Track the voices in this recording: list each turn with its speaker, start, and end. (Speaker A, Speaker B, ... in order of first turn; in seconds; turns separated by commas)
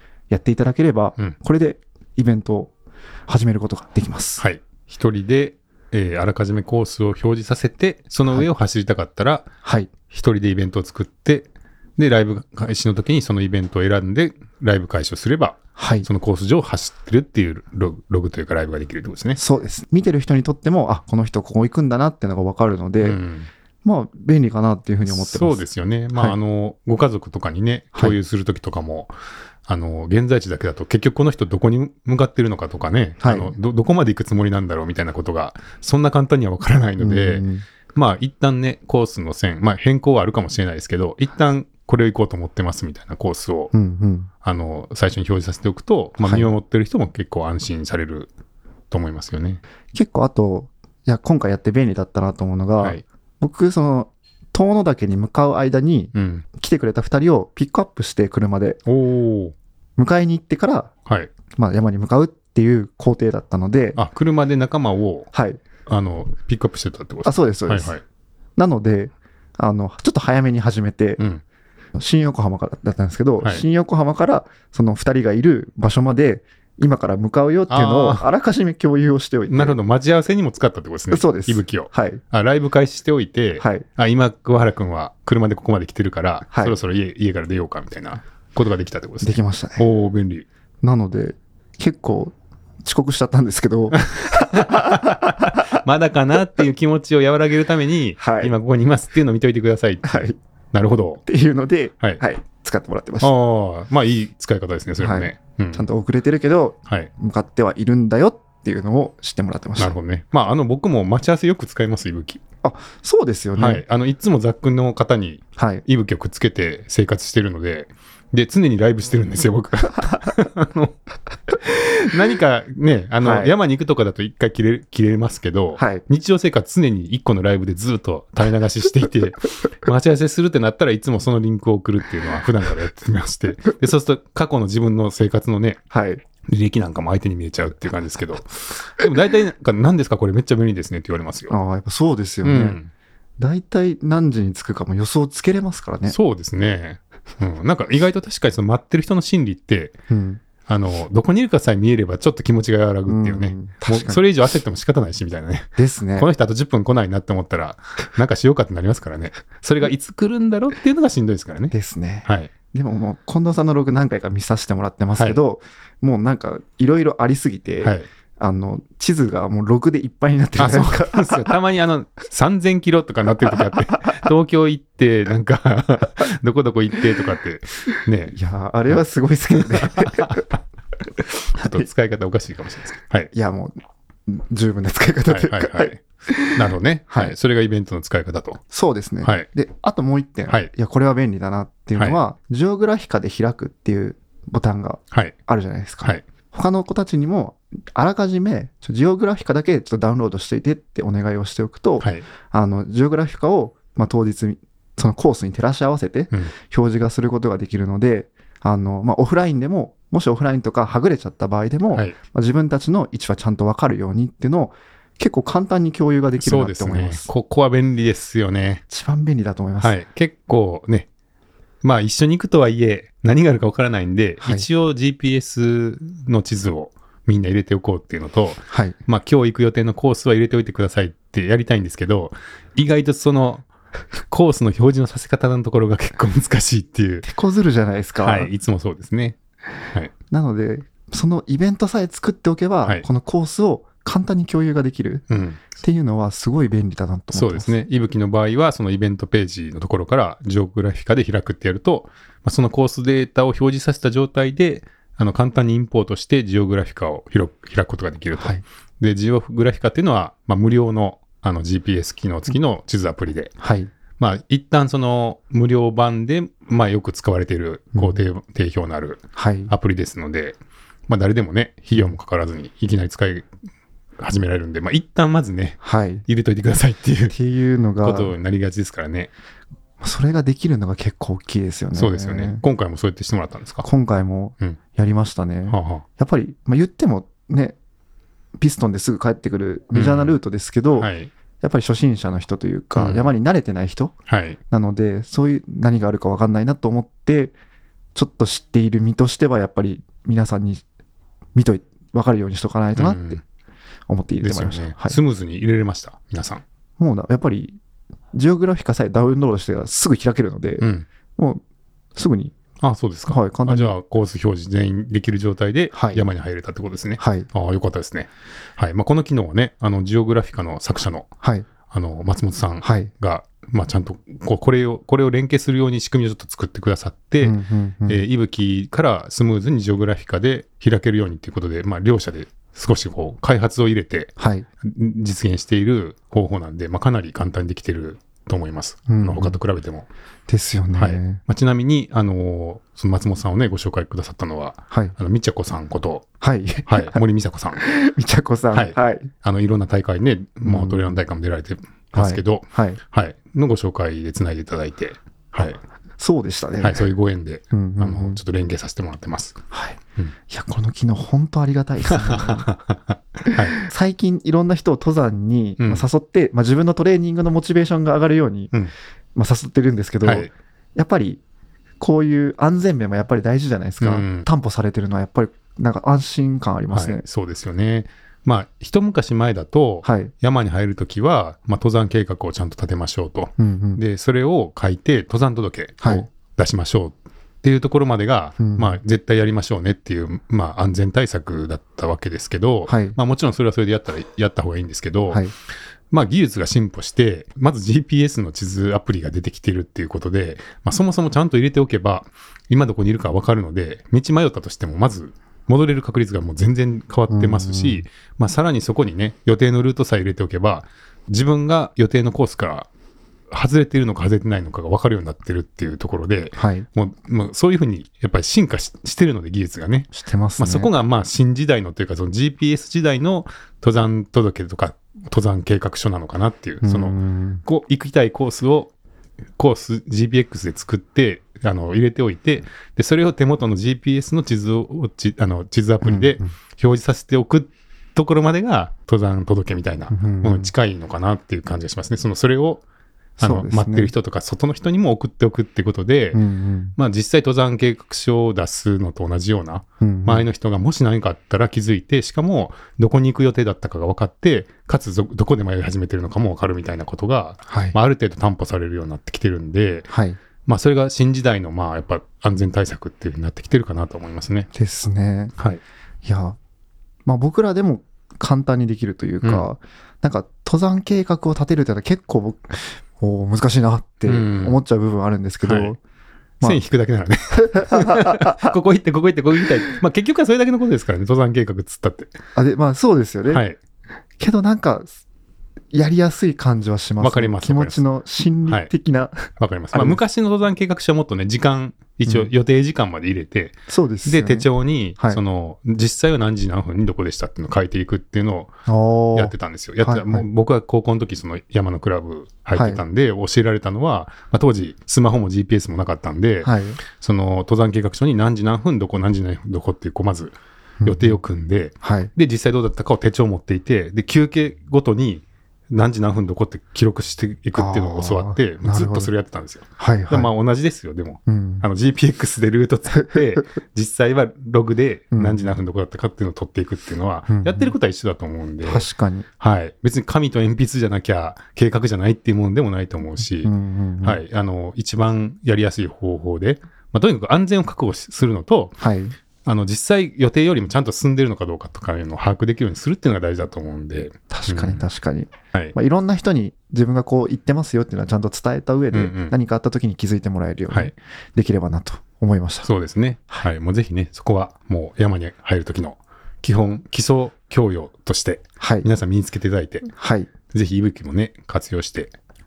Speaker A: 0.3-2.7, Speaker A: 3.3-4.4, Speaker B: 4.4-9.5, Speaker A: 9.6-9.9, Speaker B: 10.1-19.4, Speaker A: 15.8-16.1, Speaker A: 19.4-23.2, Speaker B: 23.0-23.5, Speaker A: 23.8-25.6, Speaker B: 25.1-29.1, Speaker B: 29.7-43.7, Speaker A: 33.2-33.5, Speaker A: 37.0-37.6, Speaker A: 43.7-44.3, Speaker B: 44.4-48.3, Speaker A: 46.2-46.5, Speaker B: 48.9-49.6, Speaker A: 49.9-58.8, Speaker B: 56.1-56.5, Speaker B: 58.9-59.5, Speaker A: 60.0-60.9, Speaker B: 61.0-61.3, Speaker A: 61.5-64.0, Speaker B: 64.0-65.3, Speaker A: 65.3-65.6, Speaker B: 65.8-68.0, Speaker A: 67.2-68.0, Speaker A: 68.6-71.2, Speaker A: 72.0-79.8, Speaker B: 77.7-78.3, Speaker B: 79.5-90.5, Speaker A: 81.1-82.2, Speaker A: 83.6-83.8, Speaker A: 86.5-86.8, Speaker A: 89.2-89.8, Speaker A: 90.8-95.7, Speaker B: 94.1-101.2, Speaker A: 98.2-98.5, Speaker A: 100.0-100.3, Speaker A: 101.2-103.3, Speaker B: 103.2-105.8, Speaker A: 105.0-110.0, Speaker B: 109.8-112.4, Speaker A: 112.6-113.8, Speaker B: 113.6-120.9, Speaker A: 115.6-115.8, Speaker B: 121.5-135.8, Speaker A: 123.2-123.5, Speaker A: 125.8-126.0, Speaker A: 135.9-136.2, Speaker B: 136.4-141.6, Speaker A: 141.5-142.8, Speaker B: 142.4-142.9, Speaker A: 143.4-146.2, Speaker B: 146.1-149.9, Speaker A: 150.1-150.4, Speaker B: 150.7-161.7, Speaker A: 153.1-154.2, Speaker A: 155.8-156.3, Speaker A: 161.7-171.5, Speaker B: 162.2-162.5, Speaker B: 170.6-178.3, Speaker A: 178.3-180.5, Speaker B: 179.7-180.4, Speaker B: 181.5-183.3, Speaker A: 181.6-181.8, Speaker A: 183.3-183.7, Speaker A: 184.3-187.3, Speaker B: 185.3-186.0, Speaker B: 186.5-188.6, Speaker A: 188.7-217.3, Speaker B: 216.4-218.8, Speaker A: 218.9-219.9, Speaker B: 219.8-221.1, Speaker B: 221.8-233.7, Speaker A: 224.4-224.7, Speaker A: 228.7-228.9, Speaker B: 234.3-237.3, Speaker A: 237.2-238.5, Speaker B: 238.2-239.4, Speaker A: 240.3-247.7, Speaker B: 245.3-245.6, Speaker B: 247.3-263.5, Speaker A: 258.4-258.6, Speaker A: 263.6-263.9, Speaker B: 264.2-273.5, Speaker A: 267.9-268.2, Speaker A: 269.3-269.7, Speaker B: 274.2-277.3, Speaker A: 275.8-276.2, Speaker A: 277.3-278.3, Speaker B: 278.0-279.3, Speaker A: 280.0-282.6, Speaker B: 281.9-283.9, Speaker A: 283.8-287.8, Speaker B: 285.7-286.0, Speaker A: 288.6-291.1, Speaker B: 289.9-290.4, Speaker B: 290.9-291.3, Speaker A: 291.6-294.1, Speaker B: 292.9-293.3, Speaker B: 294.3-294.6, Speaker A: 294.7-297.5, Speaker A: 298.1-300.8, Speaker A: 301.5-303.4, Speaker B: 302.9-303.4, Speaker A: 304.1-305.2, Speaker B: 304.4-306.6, Speaker A: 307.0-307.8, Speaker A: 308.3-311.6, Speaker B: 310.8-311.1, Speaker A: 312.1-312.5, Speaker B: 312.8-321.3, Speaker A: 313.3-313.9, Speaker A: 315.9-316.3, Speaker A: 317.2-317.5, Speaker A: 321.4-321.7, Speaker B: 321.9-340.1, Speaker A: 322.8-323.1, Speaker A: 327.4-328.2, Speaker A: 334.4-334.6, Speaker A: 339.1-339.6, Speaker A: 340.5-341.4, Speaker B: 340.9-346.2, Speaker A: 346.4-347.2, Speaker B: 346.9-347.8, Speaker A: 347.8-349.3, Speaker B: 348.7-355.8, Speaker A: 350.6-351.2, Speaker A: 352.1-353.0, Speaker A: 356.2-357.1, Speaker B: 356.8-359.6, Speaker A: 357.7-358.4, Speaker A: 359.7-362.7, Speaker B: 362.1-363.8, Speaker A: 363.4-368.7, Speaker B: 365.8-366.1, Speaker A: 369.3-371.4, Speaker B: 370.2-370.5, Speaker A: 372.0-377.2, Speaker B: 374.0-374.5, Speaker B: 376.9-395.4, Speaker A: 380.0-380.3, Speaker A: 383.6-384.0, Speaker A: 386.0-386.3, Speaker A: 388.6-389.0, Speaker A: 392.9-393.2, Speaker B: 396.1-412.9, Speaker A: 407.3-408.0, Speaker B: 413.5-428.9, Speaker A: 416.6-416.9, Speaker A: 420.1-420.9, Speaker A: 426.8-427.6, Speaker B: 429.6-442.8, Speaker A: 436.0-436.5, Speaker A: 440.1-440.7, Speaker A: 443.4-444.1, Speaker B: 443.4-446.4, Speaker A: 446.3-446.9, Speaker B: 446.9-460.1, Speaker A: 450.0-450.4, Speaker A: 457.7-457.9, Speaker A: 460.1-460.4, Speaker B: 460.6-464.7, Speaker A: 464.7-465.5, Speaker A: 466.2-466.6, Speaker A: 467.2-476.0, Speaker B: 474.2-474.8, Speaker B: 475.6-475.9, Speaker B: 476.6-482.3, Speaker A: 477.5-478.7, Speaker A: 482.5-483.6, Speaker B: 483.5-483.8, Speaker A: 484.4-485.1, Speaker A: 485.9-490.2, Speaker B: 487.2-488.0, Speaker B: 489.6-498.7, Speaker A: 493.9-494.7, Speaker A: 498.9-500.4, Speaker B: 499.3-529.0, Speaker A: 502.7-503.0, Speaker A: 506.6-507.0, Speaker A: 511.0-511.4, Speaker A: 512.0-512.3, Speaker A: 517.8-519.3, Speaker A: 520.0-520.5, Speaker A: 521.5-521.8, Speaker A: 525.3-525.6, Speaker A: 527.5-527.9, Speaker A: 528.8-529.5, Speaker B: 529.6-533.7, Speaker A: 533.6-534.4, Speaker B: 534.2-538.9, Speaker A: 539.0-539.4, Speaker B: 539.6-545.0, Speaker A: 544.5-552.9, Speaker B: 549.1-549.5, Speaker B: 552.8-560.1, Speaker A: 558.8-559.1, Speaker A: 560.2-560.5, Speaker B: 560.7-562.3